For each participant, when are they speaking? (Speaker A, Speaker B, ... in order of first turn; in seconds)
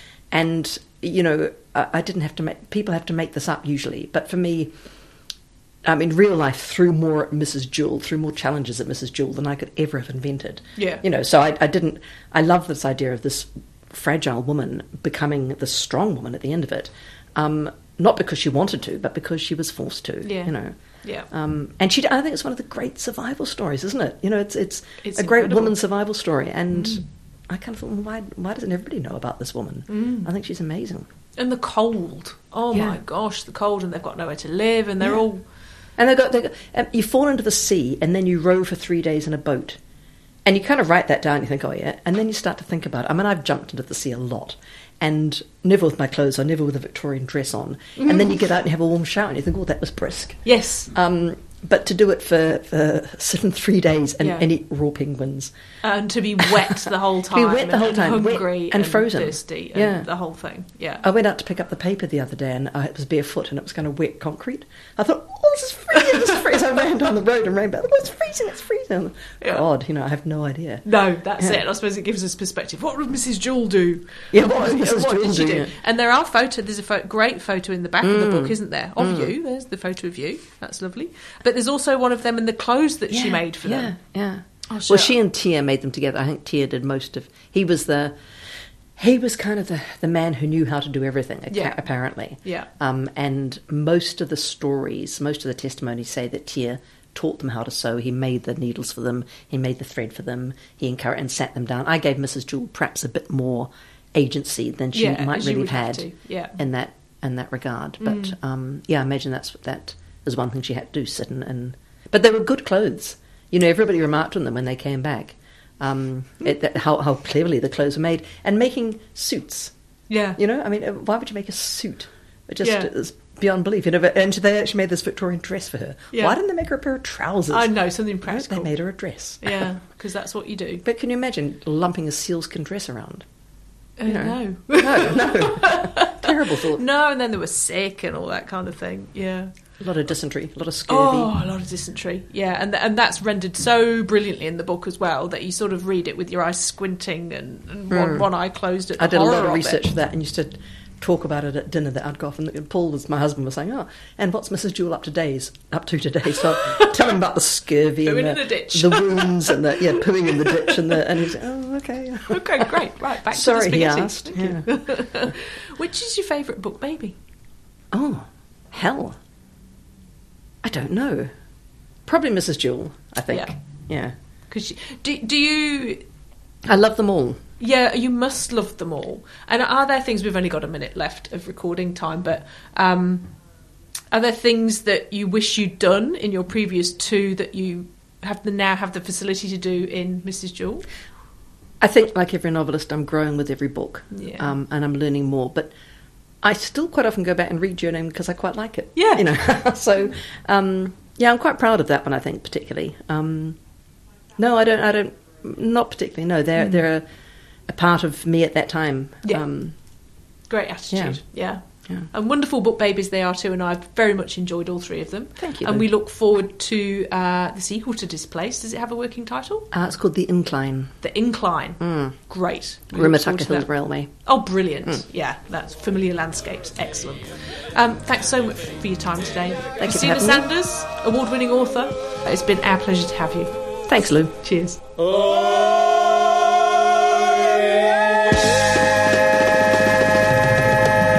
Speaker A: 0.3-4.7, 5.8-20.8, 21.3-31.1, 32.7-33.0, 36.0-39.8, 40.5-55.5, 56.4-60.1, 61.0-70.8, 74.3-75.7, 78.0-79.3, 83.1-88.2, 89.0-119.7, 120.4-127.7, 128.3-129.7, 130.8-133.2, 134.1-136.8, 139.8-141.3, 147.9-148.3, 149.0-162.8, 163.3-164.7, 167.9-169.2, 170.6-171.3, 172.1-174.1, 176.7-177.4, 191.8-195.7, 196.4-203.6, 204.4-207.1, 207.7-209.8, 210.9-211.2, 215.4-215.9, 219.7-220.9, 221.8-222.2, 222.9-224.1, 229.8-230.5, 233.9-234.4
Speaker B: 10.8-11.0, 20.2-21.3, 25.0-25.8, 26.8-27.0, 29.9-30.3, 31.4-35.4, 48.0-48.3, 50.5-50.9, 54.2-54.5, 55.8-61.0, 70.8-84.0, 84.7-85.2, 91.5-91.8, 92.4-92.7, 104.9-106.6, 108.0-108.3, 120.1-120.4, 122.6-122.9, 127.5-128.7, 129.4-130.8, 134.0-139.5, 140.9-149.8, 156.6-156.9, 158.0-160.0, 162.3-167.2, 174.5-176.1, 177.6-183.3, 184.1-190.9, 194.1-194.5, 199.0-199.3, 210.5-219.7, 221.0-223.7, 224.2-233.6, 234.4-234.8